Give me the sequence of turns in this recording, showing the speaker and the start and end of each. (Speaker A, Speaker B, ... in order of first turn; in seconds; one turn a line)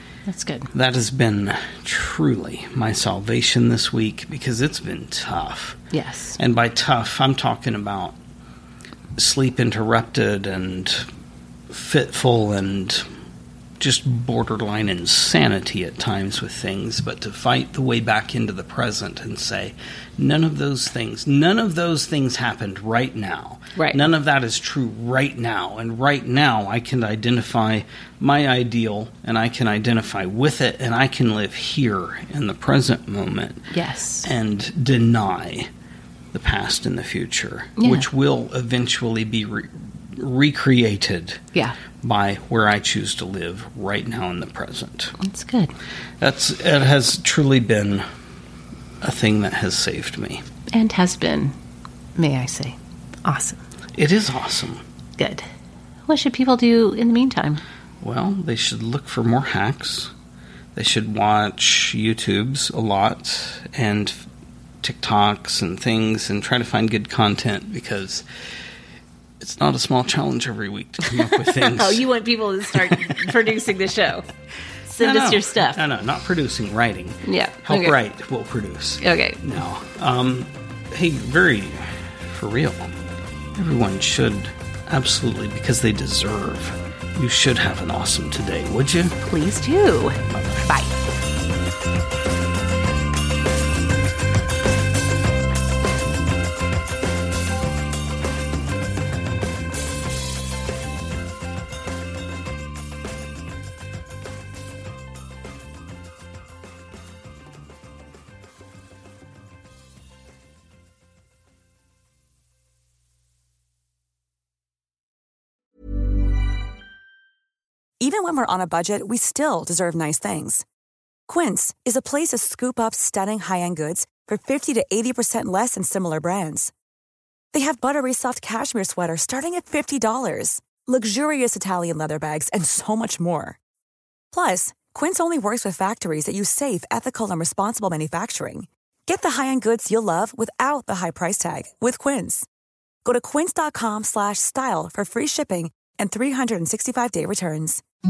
Speaker A: 0.3-0.7
Speaker B: 0.7-5.8
Speaker A: 5.9-6.4
Speaker B: 6.4-8.2
Speaker B: 9.2-11.1
Speaker B: 11.7-13.1
Speaker B: 13.8-33.7
Speaker A: 23.8-24.1
Speaker A: 33.7-34.3
Speaker B: 34.2-35.7
Speaker B: 36.3-41.4
Speaker A: 37.8-38.1
Speaker B: 42.0-45.1
Speaker A: 45.2-45.7
Speaker B: 46.2-48.1
Speaker B: 49.0-50.4
Speaker A: 50.7-51.5
Speaker A: 52.2-53.6
Speaker B: 54.0-54.8
Speaker A: 55.2-55.5
Speaker A: 56.1-57.6
Speaker B: 58.0-60.1
Speaker B: 60.8-64.2
Speaker B: 64.8-68.2
Speaker B: 69.4-72.0
Speaker A: 71.5-74.3
Speaker B: 72.8-73.2
Speaker A: 74.9-75.8
Speaker B: 75.0-82.9
Speaker A: 77.2-78.0
Speaker A: 79.0-79.4
Speaker B: 83.5-89.2
Speaker A: 89.2-90.9
Speaker B: 90.3-90.6
Speaker C: 118.0-120.7
Speaker C: 121.3-126.7
Speaker C: 127.5-133.6
Speaker C: 134.3-142.5
Speaker C: 143.1-147.8